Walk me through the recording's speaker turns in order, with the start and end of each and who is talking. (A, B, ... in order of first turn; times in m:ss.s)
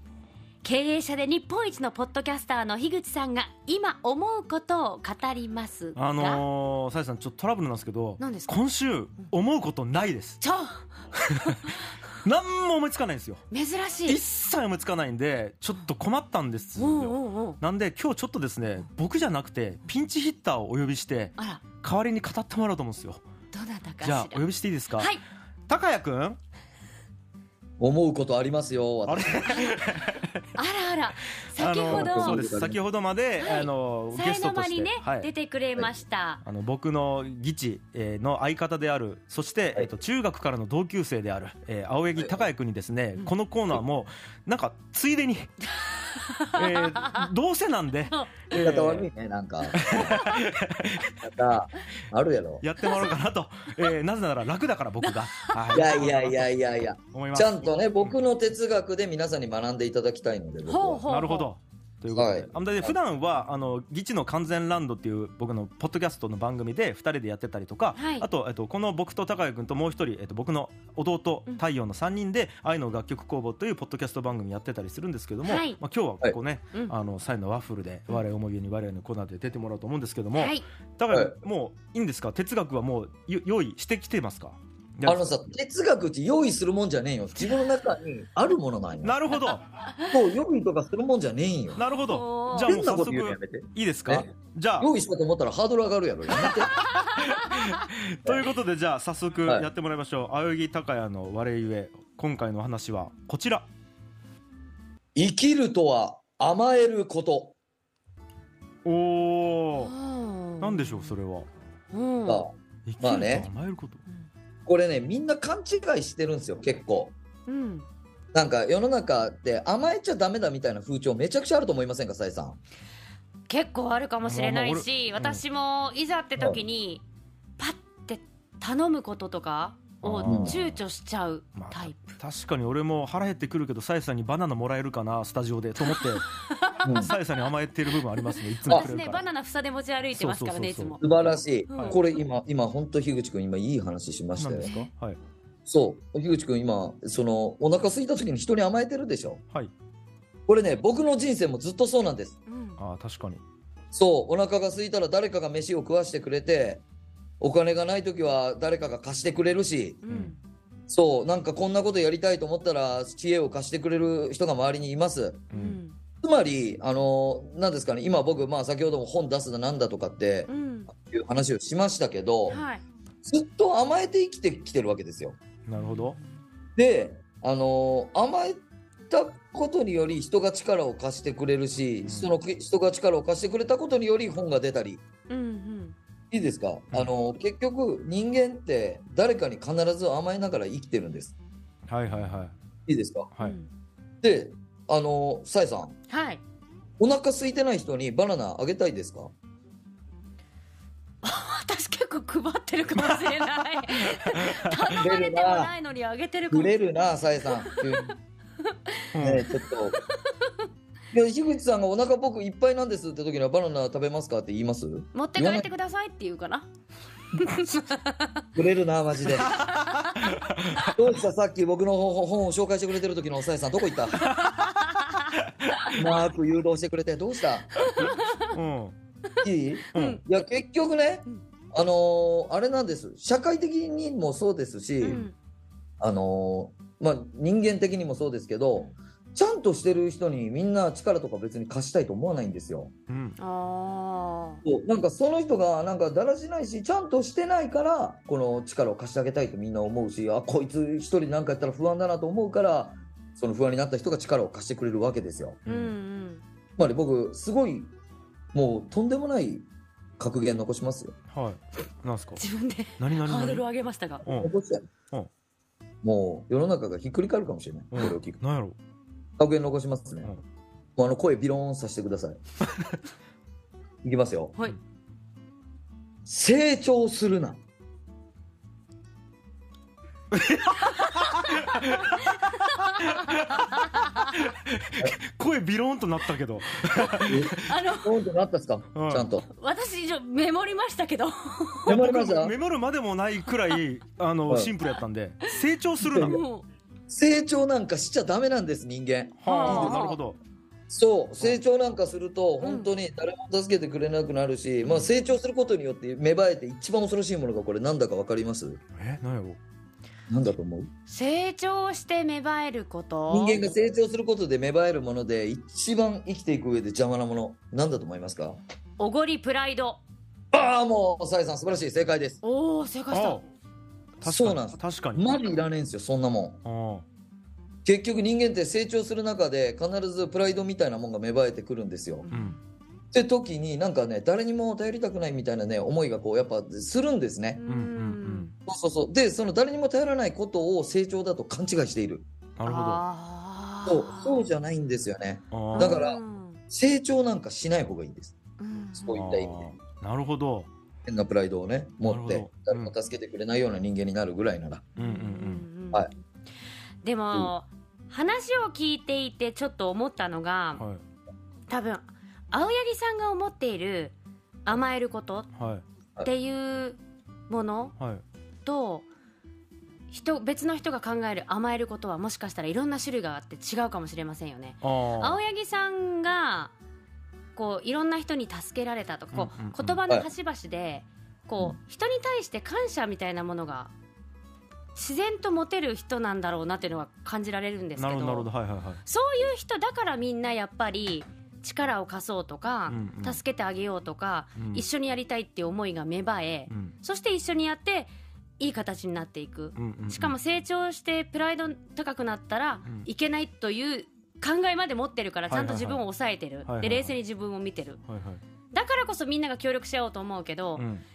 0:00.6-0:06.4 A
0:06.0-0:10.4 B
0:08.2-0:08.6 A
0:10.4-0:11.7 A
0:11.5-0:13.4 B
0:13.5-0:14.2 A
0:14.1-0:23.2 B
0:16.8-0:17.6 A
0:21.4-0:21.6 A
0:23.5-0:25.2 A
0:24.0-0:25.1 B
0:25.7-0:26.4 B
0:27.8-0:29.6 C
0:29.1-0:30.4 B
0:30.6-0:32.4 A
0:31.5-0:35.3 B
0:31.8-0:32.8 C
0:33.4-0:36.4 A
0:36.4-0:45.5 B
0:45.8-0:47.3 A
0:46.6-0:49.1 B
0:48.1-0:48.6 A
0:48.6-0:50.1 C
0:49.7-0:51.2 B
0:49.9-0:50.4 A
0:51.2-0:52.6 C
0:52.6-0:56.5 B
0:52.8-0:53.2 A
0:55.0-0:55.8 A
0:55.7-1:01.0 C
0:57.1-0:58.1 B
1:00.7-1:01.5 A
1:01.1-1:25.3 B
1:02.1-1:03.0 C
1:08.0-1:08.3 A
1:15.4-1:15.8 A
1:20.4-1:20.6 A
1:21.1-1:21.4 C
1:25.0-1:29.2 C
1:29.0-1:29.6 B
1:30.1-1:31.8 C
1:31.8-1:34.9 B
1:32.0-1:32.8 A
1:32.5-1:36.7 C
1:36.3-1:43.7 B
1:36.9-1:37.8 A
1:45.2-1:47.6 C
1:48.8-1:49.9 B
1:49.8-1:51.2 A
1:50.6-1:51.5 B
1:51.9-1:52.5 A
1:52.3-1:53.5 C
1:52.9-1:54.0 B
1:54.7-1:57.1 C
1:57.5-1:57.9 A
1:58.3-2:02.6 C
2:03.5-2:07.0 A
2:04.2-2:05.4 B
2:07.6-2:12.0 A
2:10.0-2:10.8 B
2:10.2-2:10.6 C
2:11.6-2:16.3 B
2:15.9-2:17.1 A
2:16.8-2:17.1 C
2:17.0-2:19.2 B
2:18.7-2:21.2 A
2:20.2-2:21.0 B
2:21.0-2:24.7 C
2:21.7-2:22.0 A
2:21.7-2:22.0 B
2:24.4-2:25.2 B
2:24.6-2:24.9 A
2:25.7-2:29.4 C
2:30.5-2:32.4 C
2:32.5-2:32.8 A
2:32.8-2:33.4 B
2:33.9-2:36.8 C
2:37.4-2:40.0 C
2:40.0-2:40.4 A
2:40.1-2:40.3 B
2:40.9-2:45.5 C
2:45.5-2:46.0 A
2:45.5-2:45.8 B
2:46.2-2:52.6 C
2:50.5-2:50.9 A
2:52.5-2:52.8 A
2:53.2-2:55.4 C
2:55.7-2:56.2 B
2:55.9-2:56.2 A
2:56.8-3:05.0 C
3:02.0-3:02.3 B
3:05.3-3:06.0 A
3:06.3-3:11.3 C
3:11.9-3:12.5 B
3:12.9-3:13.3 C
3:13.4-3:13.7 A
3:14.2-3:16.0 C
3:16.1-3:16.4 A
3:17.0-3:19.3 C
3:21.2-3:26.8 A
3:25.0-3:25.7 C
3:26.5-3:28.2 C
3:27.4-3:29.0 A
3:29.1-3:29.5 B
3:29.2-3:30.0 C
3:29.6-3:30.5 A
3:31.1-3:35.7 C
3:35.1-3:36.7 A
3:37.4-3:38.4 A
3:38.6-3:39.6 C
3:39.4-3:40.8 B
3:39.6-3:40.9 A
3:40.9-3:44.3 C
3:44.2-3:46.0 B
3:44.9-3:45.2 A
3:45.9-3:48.0 C
3:47.8-3:48.6 A
3:47.9-3:49.0 B
3:49.3-3:50.2 A
3:49.4-3:55.3 C
3:49.9-3:50.2 B
3:55.0-3:55.3 A
3:56.0-4:02.9 C
4:03.1-4:03.4 B
4:03.4-4:04.6 A
4:04.6-4:15.6 C
4:15.7-4:16.0 B
4:15.7-4:16.4 A
4:16.8-4:17.9 C
4:18.5-4:19.6 C
4:20.2-4:21.1 C
4:21.3-4:22.4 B
4:22.4-4:24.2 A
4:23.0-4:23.6 B
4:24.2-4:24.5 B
4:24.2-4:24.8 C
4:26.0-4:28.4 C
4:27.9-4:28.8 B
4:29.4-4:30.3 C
4:31.0-4:32.4 C
4:34.0-4:34.6 C
4:36.3-4:37.6 C
4:40.3-4:42.3 B
4:40.9-4:44.4 A
4:43.0-4:47.7 B
4:47.3-4:49.5 C
4:47.6-4:48.2 A
4:48.9-4:49.3 B
4:49.5-4:51.9 A
4:51.9-4:52.6 C
4:51.9-4:56.4 B
4:54.5-4:54.7 C
4:56.1-4:56.4 C
4:56.2-4:56.7 A
4:57.1-5:00.1 C
4:59.4-5:00.4 B
4:59.5-5:00.2 A
5:00.9-5:08.8 C
5:02.6-5:02.9 A
5:09.0-5:09.6 B
5:10.3-5:10.9 C
5:11.1-5:13.7 A
5:13.3-5:18.6 C
5:19.0-5:20.0 A
5:20.5-5:22.4 C
5:22.4-5:23.4 A
5:23.1-5:23.4 B
5:24.2-5:25.4 B
5:24.2-5:26.6 C
5:26.6-5:27.0 B
5:27.8-5:32.3 C
5:32.2-5:32.6 A
5:32.3-5:32.6 B
5:33.1-5:37.6 C
5:37.6-5:38.5 A
5:37.7-5:38.5 B
5:38.7-5:42.3 C
5:42.6-5:43.0 B
5:42.7-5:44.5 A
5:43.9-5:46.2 C
5:45.5-5:46.0 B
5:45.7-5:46.6 A
5:46.7-5:48.4 C
5:48.6-5:49.2 A
5:49.0-5:49.8 C
5:49.1-5:50.7 B
5:51.1-5:54.9 C
5:52.0-5:52.9 B
5:55.0-5:55.6 B
5:55.0-5:56.2 A
5:57.0-6:00.8 A
6:00.8-6:01.0 B
6:01.7-6:04.1 A
6:04.7-6:05.5 A
6:05.6-6:05.8 B
6:06.2-6:08.0 A
6:08.6-6:09.1 A
6:10.1-6:16.7 A
6:14.8-6:15.4 B
6:17.6-6:23.9 A
6:19.3-6:20.0 B
6:25.0-6:28.5 A
6:28.0-6:29.0 B
6:29.0-6:48.0 A
6:32.9-6:33.4 B
6:34.6-6:34.8 B
6:36.7-6:36.9 B
6:39.8-6:40.4 B
6:45.5-6:46.0 B
6:46.7-6:47.2 B
6:48.1-6:48.4 B
6:48.7-6:50.8 A
6:50.8-6:51.0 B